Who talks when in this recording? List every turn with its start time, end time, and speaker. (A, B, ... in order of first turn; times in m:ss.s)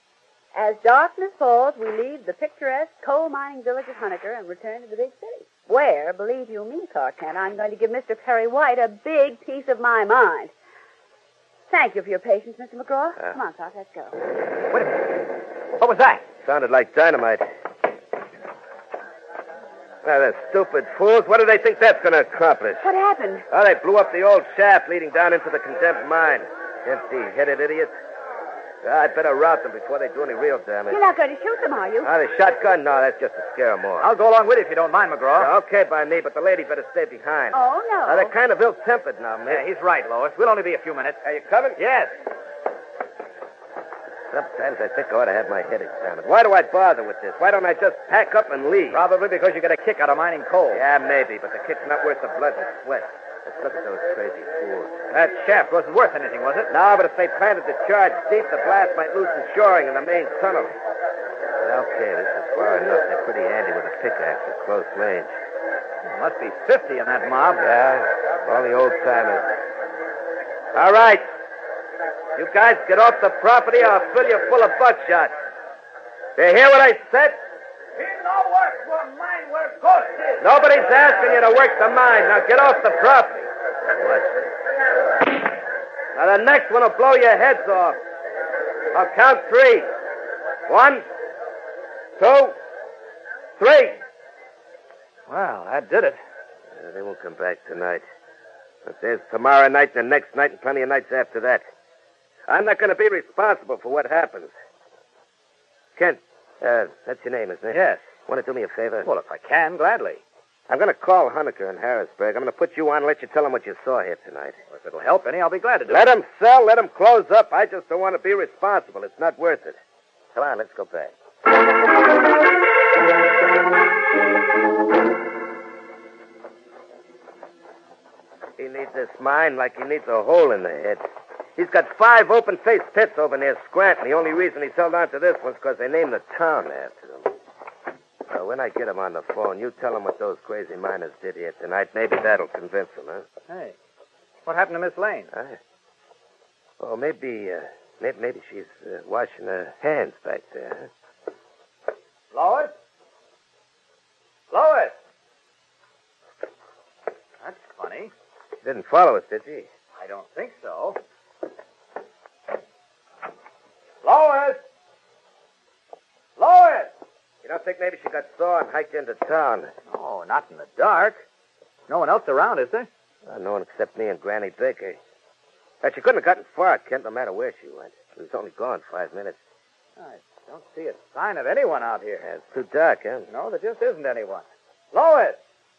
0:00.5-0:10.5 A
0:11.7-0:14.2 A
0:14.7-0:15.2 B
0:15.8-0:16.2 B
0:16.4-0:17.5 C
0:20.0-0:22.9 C
0:22.8-0:23.5 A
0:23.5-0:27.9 C
0:28.8-0:31.0 C
0:30.9-0:32.1 A
0:32.0-0:34.1 C
0:34.0-0:35.5 B
0:35.4-0:39.6 C
0:37.5-0:38.3 A
0:39.5-0:41.2 B
0:41.2-0:41.8 C
0:41.8-0:42.2 B
0:44.3-0:49.0 C
0:48.9-0:50.8 B
0:50.7-0:55.0 C
0:55.1-0:56.7 B
0:56.7-1:00.8 C
1:01.6-1:05.3 C
1:06.0-1:07.7 B
1:07.6-1:09.5 C
1:10.7-1:11.3 C
1:12.4-1:15.4 C
1:16.4-1:17.4 C
1:18.0-1:20.5 B
1:20.4-1:24.5 C
1:26.2-1:28.0 C
1:28.9-1:29.9 C
1:30.7-1:31.0 C
1:32.2-1:32.6 C
1:33.6-1:34.0 C
1:35.3-1:36.2 B
1:36.7-1:38.0 C
1:38.8-1:41.6 C
1:42.5-1:44.5 C
1:46.0-1:49.1 C
1:47.7-1:48.0 B
1:49.0-1:50.2 B
1:50.7-1:54.6 C
1:54.7-1:56.0 B
1:55.9-1:59.8 C
2:00.4-2:01.1 C
2:08.6-2:11.0 C
2:11.6-2:17.3 C
2:18.3-2:23.3 C
2:23.5-2:23.8 B
2:24.5-2:25.3 B
2:25.3-2:25.6 C
2:26.8-2:30.9 C
2:32.3-2:32.7 B
2:34.5-2:35.0 B
2:37.4-2:38.1 B
2:38.6-2:39.7 C
2:40.0-2:41.0 B
2:44.0-2:44.6 B
2:46.4-2:46.9 B
2:47.4-2:49.7 C
2:49.9-2:51.2 B
2:51.9-2:52.9 B
2:53.3-2:55.0 C
2:55.8-2:59.4 C
3:00.0-3:02.3 B
3:02.2-3:03.3 C
3:03.3-3:05.4 B